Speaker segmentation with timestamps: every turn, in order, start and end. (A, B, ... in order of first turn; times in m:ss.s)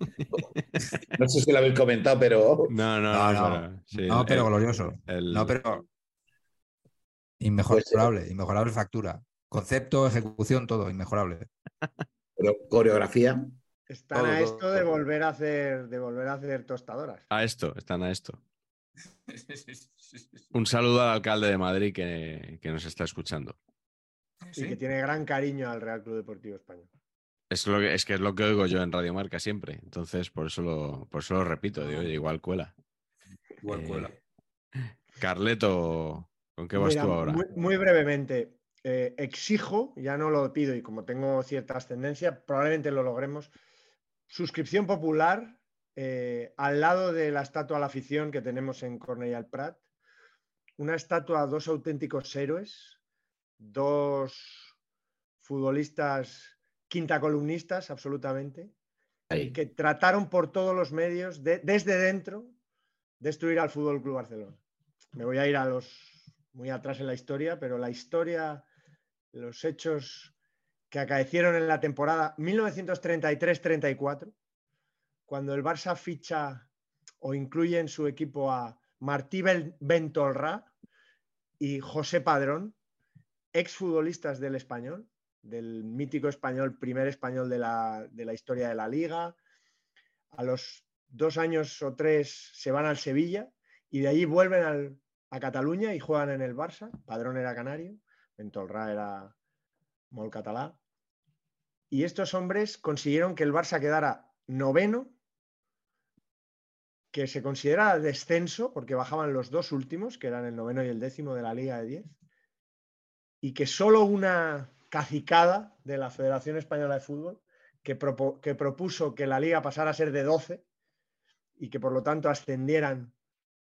0:01.1-0:02.7 A
0:02.7-0:04.5 B
0:03.1-0:05.8 C
0:05.1-0:05.6 B
0:07.4-0:11.5 C
0:07.7-0:08.1 A
0:12.4-0:13.6 A
0:13.9-0:17.2 D
0:14.1-0:14.8 C
0:17.3-0:18.4 B
0:19.3-0:20.4 C
0:20.5-0:23.6 B
0:24.4-0:24.8 C
0:24.6-0:26.9 D
0:27.5-0:32.7 B
0:31.8-0:32.1 C
0:33.6-0:34.2 C
0:33.7-0:34.1 B
0:35.2-0:37.4 B
0:36.8-0:43.5 D
0:44.3-0:49.8 D
0:50.8-0:53.0 D
0:53.6-0:54.7 D
0:55.4-0:58.7 D
0:59.3-0:59.6 A
0:59.5-1:02.5 D
1:03.2-1:04.6 D
1:05.1-1:08.6 D
1:09.3-1:10.3 D
1:10.9-1:14.3 D
1:15.3-1:16.7 D
1:17.2-1:20.7 D
1:21.6-1:22.8 D
1:23.5-1:29.4 D
1:30.3-1:39.3 D
1:40.1-1:40.8 D
1:41.9-1:45.1 D
1:47.1-1:52.1 D
1:53.4-2:00.6 D
2:01.6-2:03.1 D